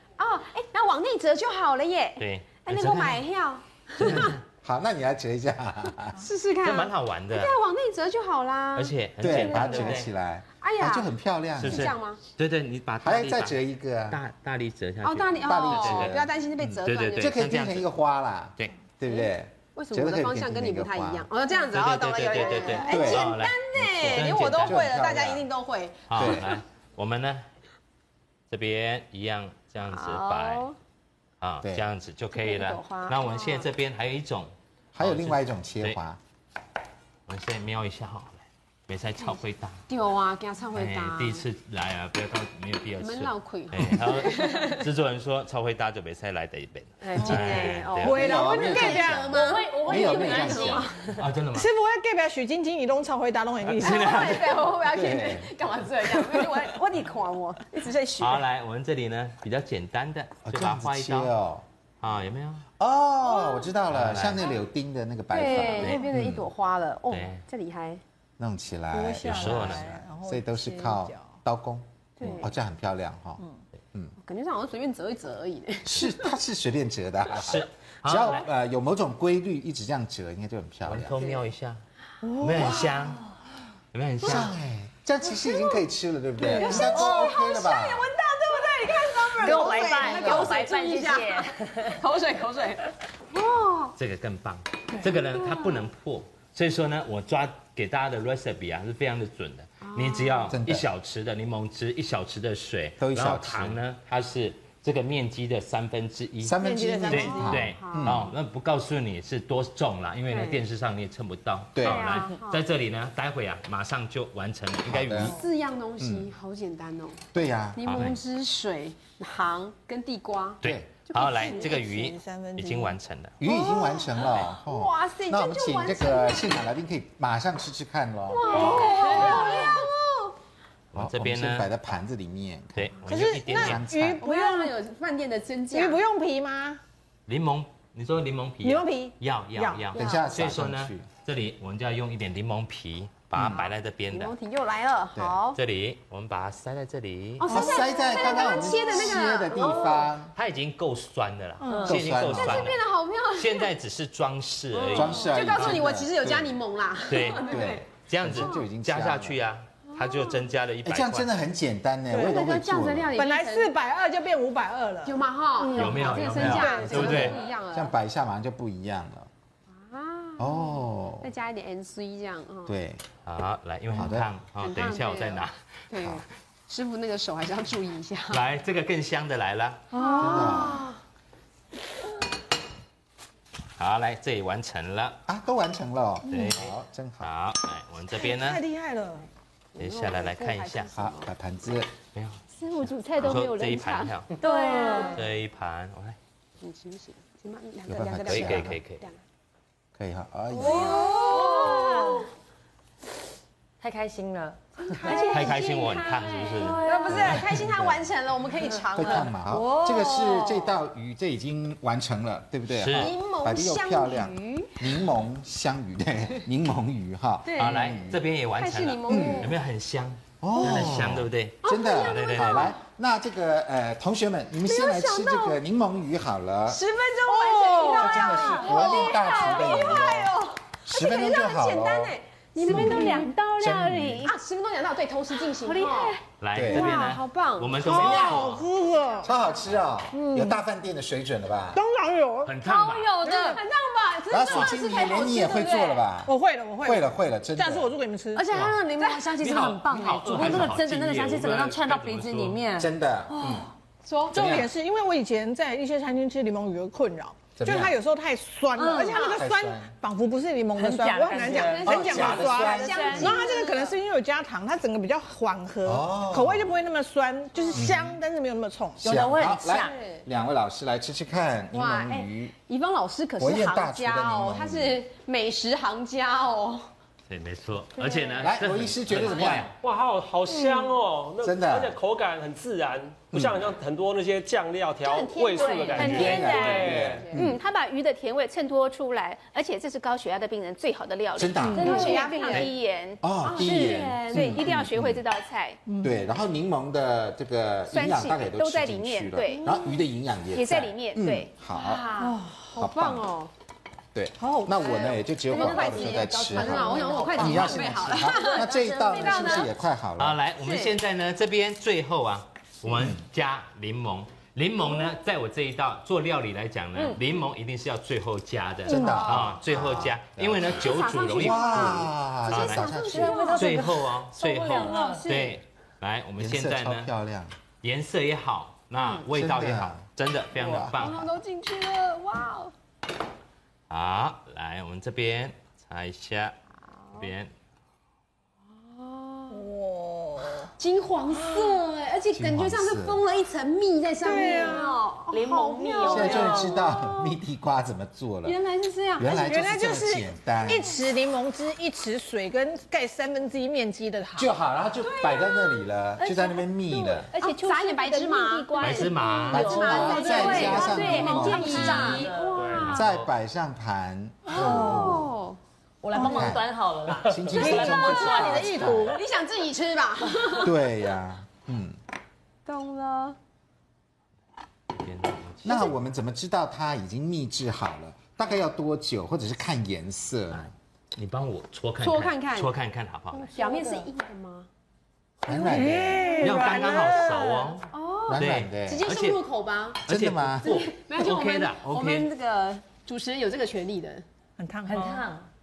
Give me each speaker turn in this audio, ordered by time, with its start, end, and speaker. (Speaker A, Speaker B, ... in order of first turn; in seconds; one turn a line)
Speaker A: 0.2-4.3
Speaker B: 2.2-3.2
Speaker B: 4.0-4.4
Speaker C: 4.0-6.2
Speaker A: 6.2-10.1
Speaker B: 6.6-7.5
Speaker B: 8.8-10.1
Speaker C: 9.2-11.9
Speaker A: 10.6-12.2
Speaker B: 11.6-16.2
Speaker C: 13.0-14.2
Speaker A: 15.0-17.4
Speaker C: 15.4-21.3
Speaker B: 16.8-17.9
Speaker A: 19.1-26.6
Speaker B: 21.7-24.9
Speaker C: 22.8-25.4
Speaker B: 26.1-27.4
Speaker C: 26.1-26.5
Speaker B: 28.5-30.7
Speaker A: 29.8-30.8
Speaker B: 31.4-36.0
Speaker A: 32.3-33.7
Speaker C: 35.0-36.2
Speaker B: 37.3-39.8
Speaker A: 39.9-41.4
Speaker B: 40.8-48.2
Speaker A: 43.0-44.9
Speaker A: 47.0-51.2
Speaker D: 47.2-49.2
Speaker C: 48.0-50.9
Speaker E: 49.3-50.9
Speaker B: 51.2-51.7
Speaker D: 51.5-54.4
Speaker B: 53.6-54.6
Speaker A: 53.8-58.3
Speaker C: 54.9-55.5
Speaker D: 57.8-58.3
Speaker B: 58.2-61.3
Speaker C: 60.5-61.6
Speaker B: 62.0-62.6
Speaker C: 62.8-66.4
Speaker A: 63.2-63.7
Speaker B: 63.9-64.5
Speaker A: 65.3-68.0
Speaker B: 65.7-66.0
Speaker B: 67.1-67.4
Speaker C: 68.4-73.4
Speaker D: 68.9-71.3
Speaker B: 69.3-70.0
Speaker A: 72.2-72.5
Speaker A: 74.2-76.3
Speaker C: 75.8-81.2
Speaker B: 77.3-78.4
Speaker B: 80.9-81.8
Speaker D: 82.2-83.0
Speaker B: 82.4-83.2
Speaker B: 83.9-84.5
Speaker C: 84.2-88.1
Speaker A: 85.3-85.8
Speaker D: 86.4-87.2
Speaker A: 86.5-93.9
Speaker E: 89.4-92.0
Speaker C: 90.0-90.5
Speaker B: 94.0-106.6
Speaker A: 95.3-95.9
Speaker A: 99.8-100.5
Speaker C: 100.5-100.9
Speaker C: 103.0-103.8
Speaker C: 106.4-108.3
Speaker D: 106.6-107.7
Speaker B: 107.1-115.3
Speaker A: 107.2-108.2
Speaker A: 110.3-110.6
Speaker C: 111.8-112.2
Speaker A: 111.8-112.7
Speaker C: 114.9-115.3
Speaker A: 115.3-121.8
Speaker C: 116.0-116.3
Speaker C: 117.3-117.8
Speaker B: 117.9-118.2
Speaker B: 120.6-123.4
Speaker D: 121.2-123.0
Speaker C: 123.4-129.3
Speaker A: 123.4-126.5
Speaker A: 128.3-130.4
Speaker D: 128.5-129.8
Speaker B: 130.9-131.7
Speaker C: 131.0-134.2
Speaker B: 132.8-134.2
Speaker D: 133.1-134.8
Speaker A: 134.2-136.0
Speaker D: 135.7-136.8
Speaker B: 137.3-144.3
Speaker D: 138.6-140.2
Speaker C: 140.0-141.1
Speaker C: 143.3-143.7
Speaker A: 143.6-145.6
Speaker B: 145.6-147.6
Speaker A: 147.4-150.1
Speaker D: 147.5-148.9
Speaker C: 147.5-150.3
Speaker B: 150.3-152.8
Speaker D: 151.6-151.9
Speaker C: 151.9-152.8
Speaker A: 152.3-153.7
Speaker B: 153.3-156.4
Speaker A: 154.7-158.7
Speaker C: 154.9-156.4
Speaker B: 157.1-161.3
Speaker C: 157.5-159.4
Speaker A: 159.9-160.5
Speaker C: 160.8-163.1
Speaker D: 162.1-162.4
Speaker A: 162.2-163.7
Speaker D: 163.2-167.4
Speaker A: 165.1-167.9
Speaker B: 165.7-167.4
Speaker C: 167.0-169.3
Speaker A: 169.7-172.8
Speaker C: 170.4-171.3
Speaker C: 172.7-173.0
Speaker B: 173.2-176.2
Speaker C: 173.9-174.3
Speaker A: 174.6-178.4
Speaker B: 178.3-179.9
Speaker D: 179.9-180.8
Speaker A: 180.0-181.0
Speaker C: 180.2-180.8
Speaker B: 183.8-185.2
Speaker C: 185.3-187.3
Speaker B: 186.3-188.7
Speaker D: 188.2-189.3
Speaker A: 189.8-191.3
Speaker B: 189.8-190.9
Speaker C: 190.9-191.9
Speaker B: 192.1-192.4
Speaker F: 192.6-194.1
Speaker B: 193.2-194.3
Speaker E: 194.4-195.2
Speaker A: 194.4-195.2
Speaker D: 194.7-195.1
Speaker B: 195.1-196.2
Speaker A: 196.6-199.2
Speaker C: 197.9-198.8
Speaker B: 198.3-199.0
Speaker C: 200.0-201.2
Speaker E: 200.5-202.3
Speaker A: 200.6-202.3
Speaker E: 203.8-205.5
Speaker A: 204.8-209.3
Speaker B: 205.3-207.4
Speaker E: 206.3-207.3
Speaker C: 207.1-208.1
Speaker C: 208.9-218.2
Speaker E: 209.2-210.7
Speaker B: 212.8-213.1
Speaker A: 212.9-214.9
Speaker A: 217.4-219.6
Speaker B: 217.6-222.8
Speaker C: 219.1-219.5
Speaker C: 220.4-226.8
Speaker A: 221.6-222.8
Speaker A: 224.7-225.6
Speaker A: 226.7-233.3
Speaker D: 227.3-229.8
Speaker E: 227.7-229.4
Speaker C: 227.9-234.3
Speaker F: 232.6-234.4
Speaker E: 232.9-233.2
Speaker A: 234.2-238.4
Speaker E: 235.6-236.2
Speaker B: 236.4-238.7
Speaker C: 236.5-237.0
Speaker D: 237.8-239.3
Speaker C: 237.9-238.4
Speaker C: 239.2-241.8
Speaker D: 240.1-240.6
Speaker D: 241.7-242.6
Speaker B: 242.4-243.2
Speaker E: 242.7-243.6
Speaker A: 243.0-246.1
Speaker D: 243.2-243.6
Speaker C: 244.3-247.9
Speaker D: 246.2-248.4
Speaker E: 248.4-252.9
Speaker A: 248.4-250.7
Speaker B: 248.5-248.8
Speaker B: 249.4-252.6
Speaker C: 252.8-253.7
Speaker A: 254.0-254.6
Speaker D: 254.3-269.1
Speaker C: 254.3-254.7
Speaker C: 257.6-258.0
Speaker E: 258.8-259.3
Speaker C: 259.1-259.9
Speaker E: 260.8-261.9
Speaker A: 261.4-263.9
Speaker C: 261.9-263.4
Speaker C: 265.8-266.7
Speaker A: 267.6-267.8
Speaker C: 267.7-268.2
Speaker C: 269.0-272.5
Speaker E: 269.0-270.0
Speaker A: 269.8-270.2
Speaker A: 271.7-276.9
Speaker C: 273.4-275.0
Speaker B: 277.3-279.7
Speaker A: 278.1-278.3
Speaker C: 278.4-279.7
Speaker G: 279.8-287.3
Speaker C: 281.4-282.0
Speaker C: 283.3-283.6
Speaker A: 285.1-287.6
Speaker F: 285.5-286.7
Speaker E: 285.6-287.0
Speaker C: 285.9-287.6
Speaker F: 287.3-295.8
Speaker C: 291.4-292.0
Speaker D: 291.6-292.2
Speaker A: 291.8-292.7
Speaker E: 291.8-292.6
Speaker C: 293.2-295.2
Speaker A: 293.4-294.6
Speaker D: 295.9-296.3
Speaker C: 296.0-302.1
Speaker F: 297.9-299.7
Speaker A: 299.5-300.0
Speaker F: 300.5-301.5
Speaker A: 301.7-303.5
Speaker D: 302.1-302.8
Speaker C: 302.8-303.3
Speaker C: 304.1-310.4
Speaker D: 304.4-305.1
Speaker A: 304.8-309.7
Speaker E: 305.5-309.7
Speaker B: 310.2-322.9
Speaker A: 310.6-310.9
Speaker E: 316.9-317.2
Speaker C: 318.9-323.4
Speaker A: 318.9-319.5
Speaker D: 318.9-319.3
Speaker A: 320.7-323.9
Speaker E: 323.0-325.3
Speaker B: 323.6-327.1
Speaker A: 324.8-325.6
Speaker C: 326.4-327.5
Speaker B: 327.8-331.3
Speaker A: 329.0-329.2
Speaker C: 329.3-330.1
Speaker C: 330.6-330.9
Speaker A: 330.7-332.7
Speaker B: 333.9-336.6
Speaker B: 337.2-337.5
Speaker A: 338.8-339.7
Speaker D: 339.5-340.7
Speaker A: 340.8-347.3
Speaker D: 341.3-341.8
Speaker C: 342.3-343.2
Speaker D: 344.2-345.0
Speaker E: 345.3-346.9
Speaker D: 346.0-346.6
Speaker C: 346.1-348.6
Speaker A: 348.4-349.5
Speaker C: 349.2-350.9
Speaker D: 349.3-354.5
Speaker C: 354.4-357.3
Speaker A: 355.0-355.9
Speaker F: 356.2-360.9
Speaker A: 357.4-363.1
Speaker B: 358.8-359.9
Speaker C: 359.5-362.3
Speaker E: 359.5-362.8
Speaker G: 362.6-363.0
Speaker B: 362.7-363.3
Speaker C: 362.9-365.3
Speaker D: 364.5-365.2
Speaker A: 364.6-365.6
Speaker E: 364.8-365.1
Speaker E: 366.0-368.9
Speaker D: 366.1-366.6
Speaker C: 366.3-366.6
Speaker C: 367.2-369.2
Speaker D: 367.5-369.2
Speaker A: 367.6-370.8
Speaker C: 370.6-372.0
Speaker A: 372.7-373.4
Speaker B: 374.9-376.0
Speaker C: 375.6-380.7
Speaker B: 381.1-383.6
Speaker A: 382.0-382.7
Speaker A: 383.3-384.7
Speaker E: 383.6-384.0
Speaker C: 385.4-386.3
Speaker D: 385.5-387.8
Speaker B: 386.4-389.4
Speaker A: 387.9-390.0
Speaker C: 388.3-389.1
Speaker B: 390.0-392.3
Speaker C: 390.1-390.8
Speaker A: 390.6-394.2
Speaker D: 394.6-395.3
Speaker E: 394.9-395.5